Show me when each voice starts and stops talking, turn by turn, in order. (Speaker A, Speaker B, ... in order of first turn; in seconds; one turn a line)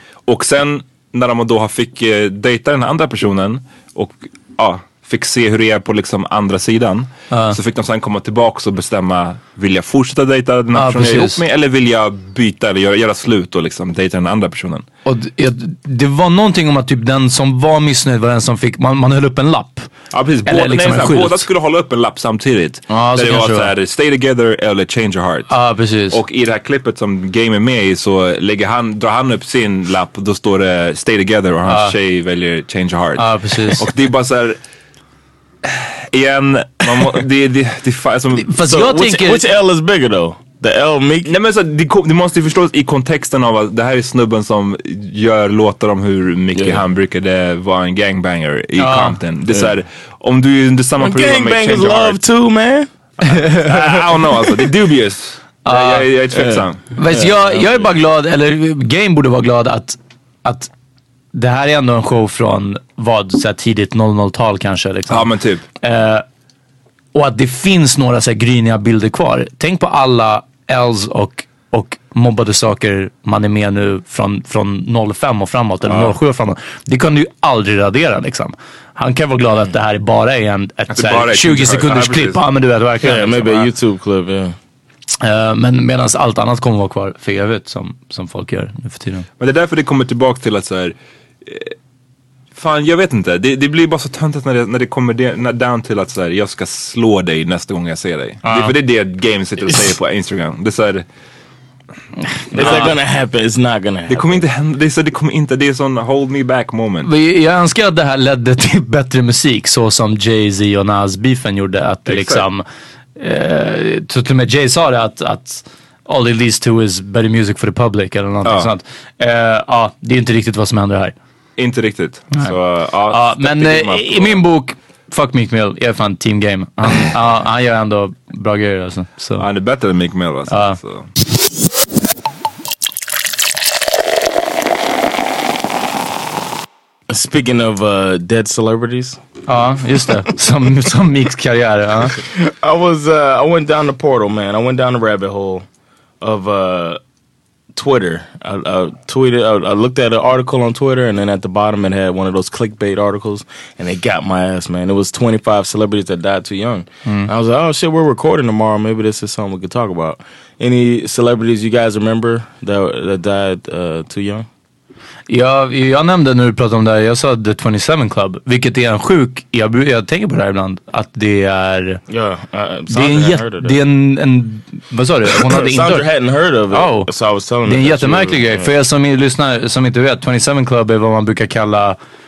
Speaker A: 0.3-14.8
Speaker B: 7.3-7.6
Speaker B: 10.7-11.4
Speaker B: 15.1-19.9
Speaker A: 20.1-25.5
Speaker B: 20.4-21.5
Speaker B: 22.9-23.7
Speaker B: 25.5-26.2
Speaker A: 26.1-34.6
Speaker B: 31.7-31.9
Speaker B: 33.2-33.9
Speaker A: 35.6-38.5
Speaker B: 38.4-39.4
Speaker C: 38.6-41.3
Speaker A: 41.2-52.2
Speaker C: 46.5-46.8
Speaker B: 48.8-49.2
Speaker C: 51.0-52.9
Speaker B: 53.2-53.6
Speaker A: 53.3-56.8
Speaker B: 55.6-56.1
Speaker C: 56.3-57.3
Speaker B: 56.9-60.7
Speaker B: 61.3-65.3
Speaker A: 65.1-65.6
Speaker B: 65.8-66.2
Speaker B: 67.1-83.7
Speaker A: 75.8-76.1
Speaker A: 80.9-82.4
Speaker C: 83.0-84.5
Speaker B: 85.2-89.2
Speaker A: 89.4-91.7
Speaker A: 92.5-101.0
Speaker B: 98.4-98.7
Speaker B: 102.5-102.9
Speaker C: 102.5-104.4
Speaker A: 102.6-102.9
Speaker A: 104.1-107.1
Speaker B: 107.0-112.6
Speaker A: 112.1-112.4
Speaker B: 113.2-121.1
Speaker A: 118.4-118.7
Speaker A: 121.6-124.4
Speaker B: 123.1-129.4
Speaker A: 129.4-131.1
Speaker B: 130.5-130.8
Speaker C: 137.1-139.2
Speaker B: 139.5-142.2
Speaker C: 142.2-145.6
Speaker C: 146.2-147.0
Speaker C: 147.7-164.5
Speaker B: 165.3-172.0
Speaker C: 172.1-173.8
Speaker B: 172.9-176.1
Speaker C: 175.4-178.7
Speaker B: 176.7-177.1
Speaker B: 177.7-182.0